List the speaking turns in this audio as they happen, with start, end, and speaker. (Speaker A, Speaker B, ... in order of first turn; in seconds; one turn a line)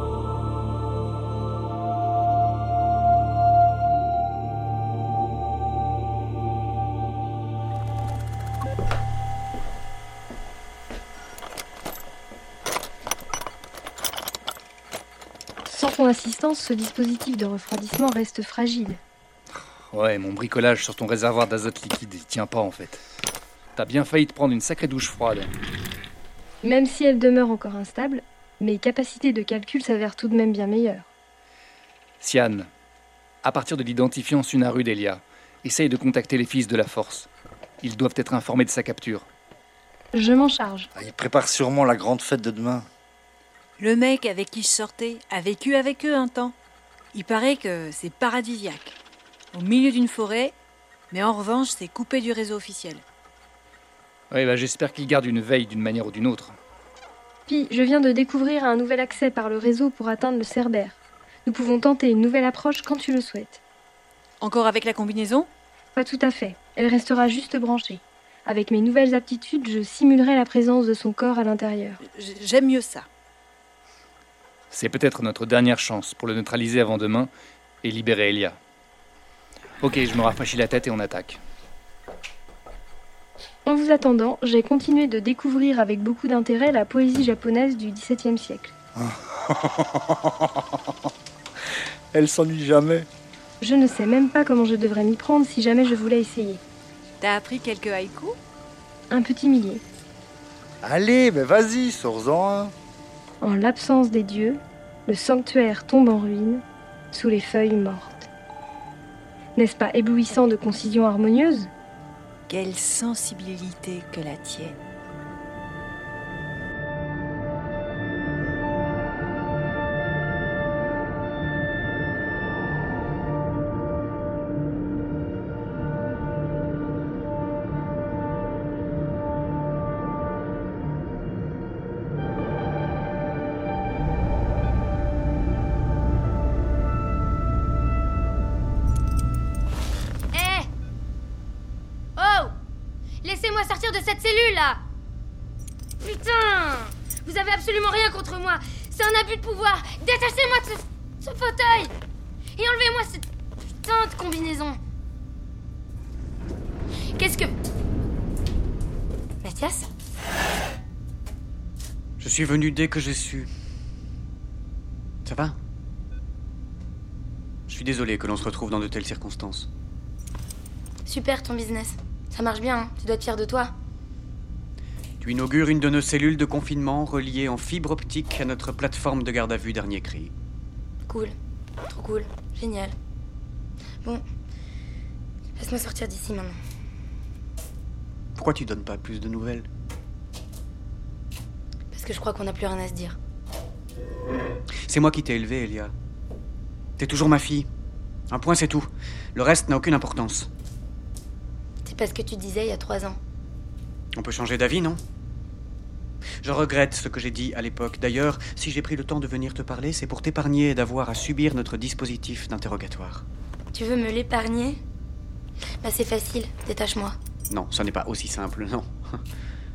Speaker A: 15.7-19.0
Speaker B: 19.9-23.0
Speaker B: 23.8-25.5
Speaker A: 26.6-31.1
Speaker B: 32.2-32.7
Speaker B: 33.4-37.3
Speaker B: 37.8-39.2
Speaker A: 40.1-40.9
Speaker C: 41.0-42.9
Speaker D: 43.8-46.5
Speaker D: 47.1-49.0
Speaker D: 49.5-50.5
Speaker D: 51.1-53.0
Speaker B: 54.3-56.5
Speaker A: 57.5-63.6
Speaker D: 64.4-65.5
Speaker A: 66.0-72.0
Speaker D: 72.0-73.0
Speaker B: 74.7-77.3
Speaker B: 77.8-78.6
Speaker B: 79.8-81.4
Speaker A: 83.7-88.7
Speaker B: 89.0-89.7
Speaker C: 92.1-93.1
Speaker A: 93.6-96.6
Speaker D: 97.2-98.4
Speaker A: 99.1-99.8
Speaker C: 100.8-102.7
Speaker A: 103.4-108.3
Speaker A: 109.5-111.7
Speaker D: 112.5-114.8
Speaker E: 140.3-140.7
Speaker E: 142.2-142.5
Speaker E: 143.2-144.8
Speaker E: 146.0-151.9
Speaker E: 152.6-153.2
Speaker E: 153.8-154.8
Speaker E: 157.2-157.5
Speaker E: 159.4-159.9
Speaker F: 162.2-163.5
Speaker F: 165.2-165.6
Speaker F: 167.7-169.7
Speaker E: 171.1-173.7
Speaker F: 175.2-180.3
Speaker E: 181.1-181.3
Speaker E: 181.9-182.9
Speaker E: 185.6-186.6
Speaker F: 188.3-189.7
Speaker E: 191.9-193.2
Speaker F: 194.9-195.9
Speaker F: 197.0-197.7
Speaker F: 198.3-200.5
Speaker E: 201.8-203.2
Speaker F: 204.2-205.0
Speaker F: 206.4-213.2
Speaker E: 213.7-214.8
Speaker E: 215.8-217.2
Speaker F: 217.5-218.9